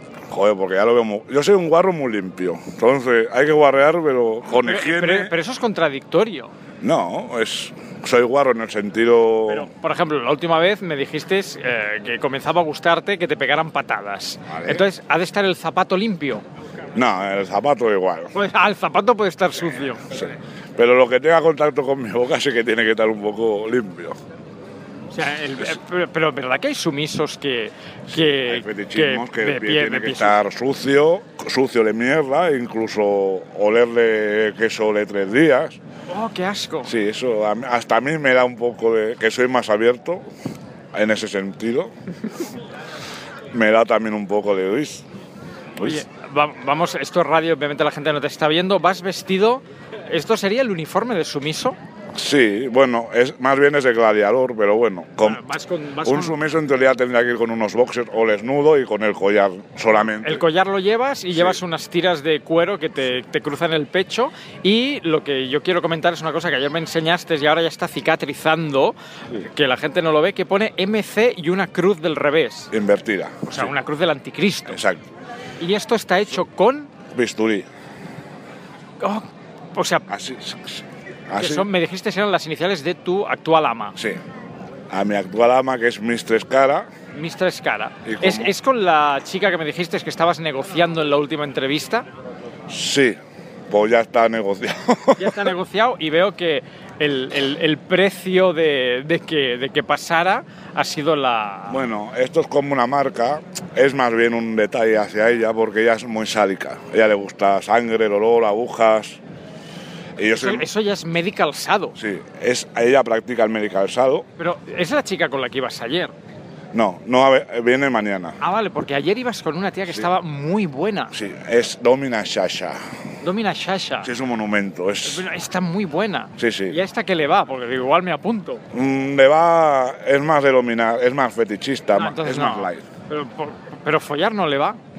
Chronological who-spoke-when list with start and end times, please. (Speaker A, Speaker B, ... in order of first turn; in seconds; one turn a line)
Speaker A: 0.3-5.3
Speaker B: 4.6-6.5
Speaker A: 6.8-9.7
Speaker B: 9.5-16.4
Speaker A: 14.5-14.8
Speaker A: 16.9-18.3
Speaker B: 18.3-20.0
Speaker A: 20.1-24.2
Speaker B: 25.1-30.4
Speaker A: 28.1-35.8
Speaker B: 36.1-36.9
Speaker A: 36.9-40.2
Speaker A: 40.9-41.9
Speaker A: 43.5-45.1
Speaker A: 45.8-46.0
Speaker B: 45.8-51.8
Speaker A: 52.1-55.4
Speaker B: 55.2-56.4
Speaker A: 56.0-60.5
Speaker B: 59.9-72.7
Speaker A: 61.3-61.6
Speaker A: 72.7-73.7
Speaker B: 73.5-74.8
Speaker A: 74.7-75.0
Speaker B: 75.6-76.9
Speaker A: 77.1-77.7
Speaker B: 79.0-80.1
Speaker A: 80.1-81.7
Speaker B: 81.4-84.0
Speaker A: 84.9-86.9
Speaker B: 87.1-92.1
Speaker A: 88.0-88.5
Speaker A: 92.7-93.2
Speaker A: 93.7-95.5
Speaker B: 95.2-101.9
Speaker A: 101.7-109.2
Speaker A: 110.2-110.7
Speaker B: 110.3-112.0
Speaker A: 112.0-114.3
Speaker B: 114.4-116.1
Speaker A: 116.7-118.4
Speaker B: 118.4-121.1
Speaker A: 121.1-122.8
Speaker B: 123.2-124.1
Speaker A: 124.0-125.2
Speaker B: 125.0-128.6
Speaker A: 126.4-126.8
Speaker A: 128.7-132.8
Speaker B: 131.9-134.8